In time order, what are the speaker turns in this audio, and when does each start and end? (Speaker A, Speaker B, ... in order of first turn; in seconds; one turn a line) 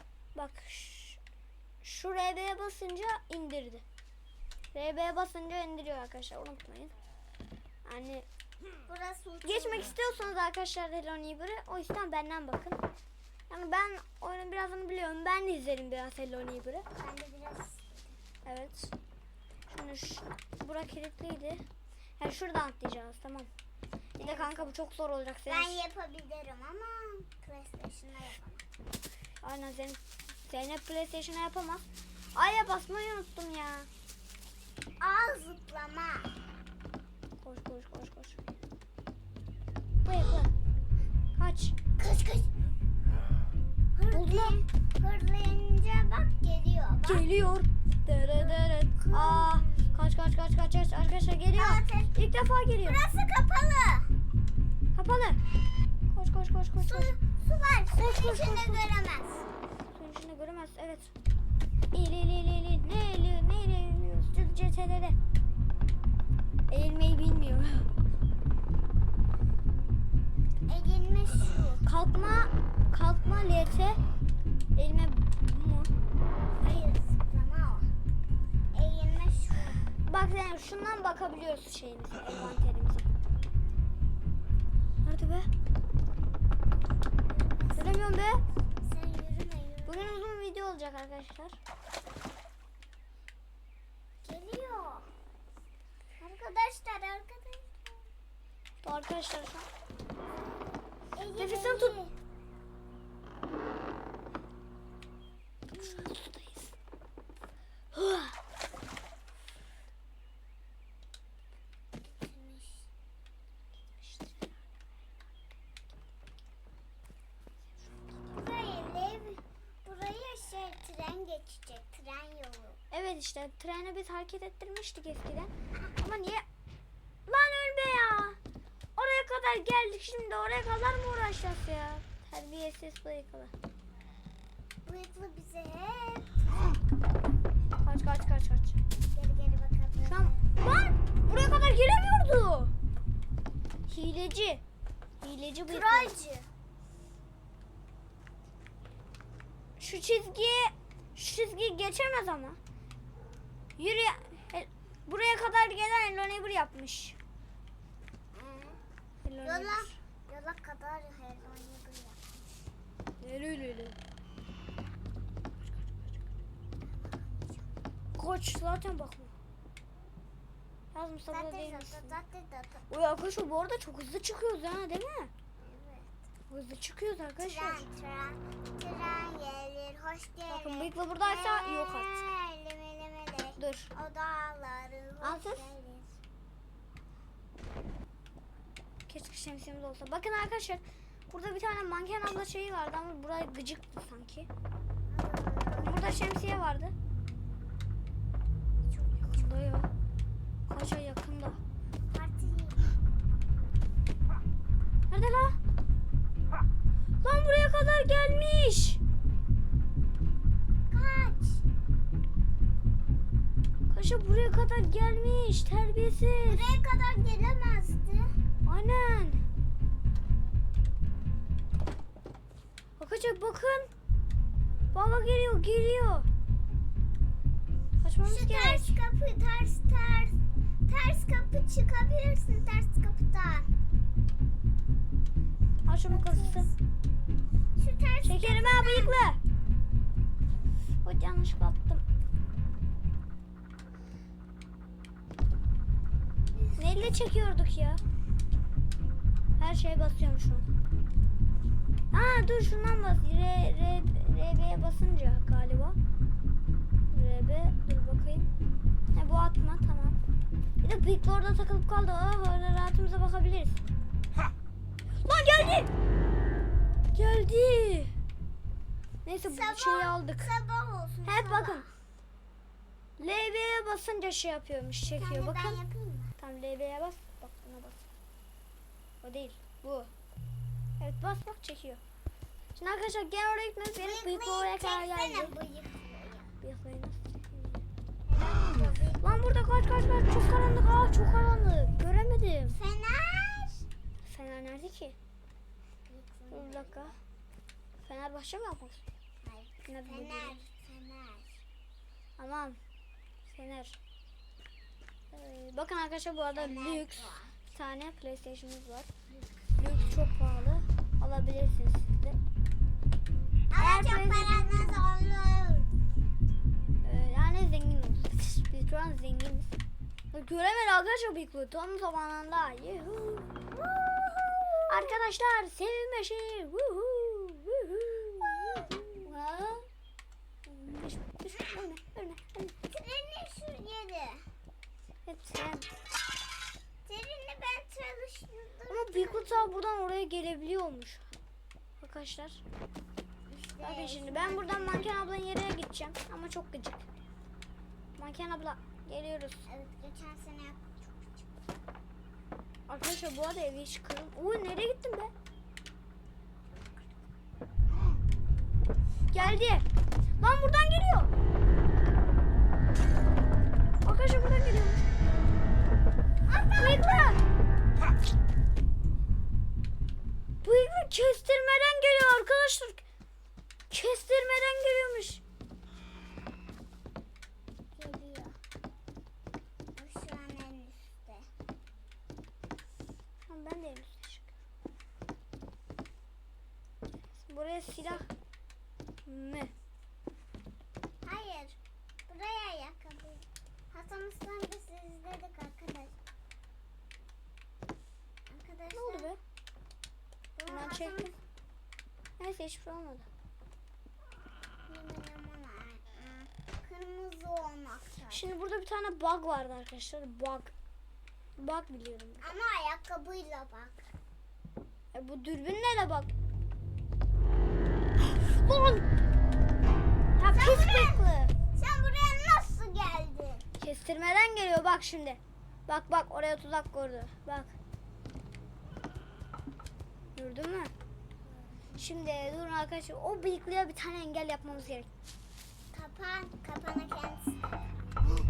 Speaker A: 0.3-1.2
Speaker A: 1.8-3.8
Speaker A: 4.7-6.9
Speaker A: 7.8-8.2
Speaker B: 8.8-9.9
Speaker A: 9.4-12.8
Speaker A: 13.5-16.9
Speaker B: 17.0-18.2
Speaker A: 18.4-18.9
Speaker A: 19.7-21.6
Speaker A: 22.2-23.5
Speaker A: 24.2-25.8
Speaker B: 24.2-24.7
Speaker B: 25.5-28.6
Speaker A: 29.4-31.8
Speaker A: 32.3-33.9
Speaker B: 35.0-36.3
Speaker A: 37.4-38.4
Speaker A: 40.0-40.5
Speaker A: 41.4-41.8
Speaker B: 42.0-42.5
Speaker B: 43.9-47.3
Speaker A: 44.1-44.6
Speaker A: 47.0-53.0
Speaker B: 48.3-50.0
Speaker B: 51.5-52.1
Speaker B: 52.8-54.1
Speaker A: 54.9-55.4
Speaker A: 56.1-57.2
Speaker B: 56.8-59.5
Speaker A: 58.0-58.9
Speaker A: 59.9-61.1
Speaker A: 61.9-65.2
Speaker A: 66.7-67.9
Speaker B: 70.7-71.8
Speaker A: 71.8-74.0
Speaker A: 74.8-75.9
Speaker B: 76.6-77.9
Speaker B: 78.7-79.8
Speaker A: 80.1-83.1
Speaker A: 85.0-85.5
Speaker B: 87.2-88.0
Speaker A: 87.8-88.4
Speaker B: 88.8-90.2
Speaker A: 89.9-91.6
Speaker B: 94.2-95.1
Speaker B: 96.2-98.1
Speaker A: 98.8-99.7
Speaker B: 101.1-102.2
Speaker A: 101.3-102.0
Speaker A: 105.7-106.7
Speaker A: 107.9-108.4
Speaker B: 112.0-112.9
Speaker A: 114.0-114.5
Speaker B: 118.3-122.8
Speaker A: 122.9-126.4
Speaker A: 127.3-128.4
Speaker A: 128.9-133.5
Speaker B: 134.8-136.5
Speaker A: 137.8-138.8
Speaker B: 139.0-140.5
Speaker A: 140.1-142.7
Speaker A: 143.9-144.6
Speaker A: 145.2-146.1
Speaker B: 145.7-146.5
Speaker A: 149.8-152.6
Speaker A: 153.8-157.2
Speaker B: 158.3-158.8
Speaker A: 159.2-160.0
Speaker B: 159.4-162.6
Speaker A: 163.2-164.0
Speaker B: 166.8-167.7
Speaker A: 168.2-169.3
Speaker A: 170.9-172.2
Speaker B: 171.3-172.9
Speaker A: 172.9-175.3
Speaker B: 175.6-176.1
Speaker A: 176.5-177.8
Speaker B: 177.4-186.2
Speaker A: 180.5-182.3
Speaker A: 183.6-183.9
Speaker A: 185.2-185.7
Speaker A: 189.1-194.5
Speaker B: 195.1-196.1
Speaker A: 195.8-196.9
Speaker B: 198.8-199.5
Speaker A: 199.2-199.9
Speaker A: 200.7-201.6
Speaker B: 202.1-202.9
Speaker A: 205.1-205.6
Speaker A: 207.2-209.0
Speaker B: 210.9-211.6
Speaker A: 213.9-216.7
Speaker B: 216.5-218.3
Speaker A: 218.6-219.4
Speaker A: 223.0-223.9
Speaker A: 224.9-226.3
Speaker A: 228.0-229.0
Speaker B: 228.2-233.7
Speaker A: 235.8-236.7
Speaker B: 236.1-236.7
Speaker B: 237.8-239.2
Speaker A: 238.2-239.4
Speaker A: 241.0-242.0
Speaker B: 246.5-247.1
Speaker A: 246.8-248.0
Speaker A: 249.6-250.7
Speaker A: 252.1-256.0
Speaker A: 257.1-258.5
Speaker A: 259.1-260.2
Speaker A: 260.8-263.8
Speaker A: 265.2-265.9
Speaker A: 267.1-268.1
Speaker A: 269.2-270.5
Speaker B: 269.4-271.9
Speaker A: 271.2-271.8
Speaker A: 273.2-275.8
Speaker B: 275.1-276.3
Speaker A: 276.4-278.1
Speaker A: 279.2-280.1
Speaker A: 281.0-282.0
Speaker A: 282.8-285.6
Speaker B: 284.0-286.6
Speaker A: 286.6-287.8
Speaker B: 288.2-289.4
Speaker A: 289.2-292.8
Speaker B: 292.7-293.9
Speaker A: 294.2-295.2
Speaker B: 296.1-297.2
Speaker A: 296.5-297.1
Speaker A: 298.0-299.0
Speaker B: 299.4-301.6
Speaker A: 299.9-300.6
Speaker A: 302.4-302.8
Speaker A: 303.5-304.0
Speaker A: 305.3-309.1
Speaker B: 306.5-307.6
Speaker B: 309.3-309.6
Speaker A: 309.8-312.4
Speaker B: 313.7-315.9
Speaker A: 313.8-315.1
Speaker A: 317.0-319.7
Speaker A: 320.3-323.5
Speaker B: 323.7-325.1
Speaker A: 324.9-329.9
Speaker B: 328.4-329.2
Speaker A: 330.7-332.7
Speaker B: 332.9-334.4
Speaker A: 335.2-335.9
Speaker B: 337.1-339.6
Speaker A: 338.9-341.2
Speaker A: 342.0-342.6
Speaker B: 343.5-345.3
Speaker A: 343.8-347.1
Speaker A: 348.2-349.6
Speaker B: 349.7-351.6
Speaker A: 352.9-355.3
Speaker A: 359.3-359.8
Speaker A: 360.4-361.3
Speaker A: 364.1-365.1
Speaker B: 366.4-367.3
Speaker A: 366.8-367.4
Speaker A: 370.6-373.0
Speaker A: 373.9-375.4
Speaker B: 377.9-378.6
Speaker B: 379.9-381.5
Speaker A: 383.5-384.5
Speaker A: 387.4-388.3
Speaker A: 389.2-389.7
Speaker B: 391.2-396.2
Speaker B: 398.4-399.3
Speaker A: 398.9-399.4
Speaker B: 400.6-401.3
Speaker A: 400.7-401.3
Speaker A: 402.4-403.3
Speaker B: 404.9-408.5
Speaker A: 408.3-410.7
Speaker A: 411.6-412.5
Speaker B: 412.4-414.1
Speaker A: 415.1-416.3
Speaker A: 418.2-419.1
Speaker A: 420.3-421.5
Speaker B: 420.5-421.2
Speaker B: 421.7-423.6
Speaker A: 423.8-427.7
Speaker A: 430.4-430.9
Speaker B: 431.4-432.0
Speaker A: 432.0-435.1
Speaker B: 435.9-437.6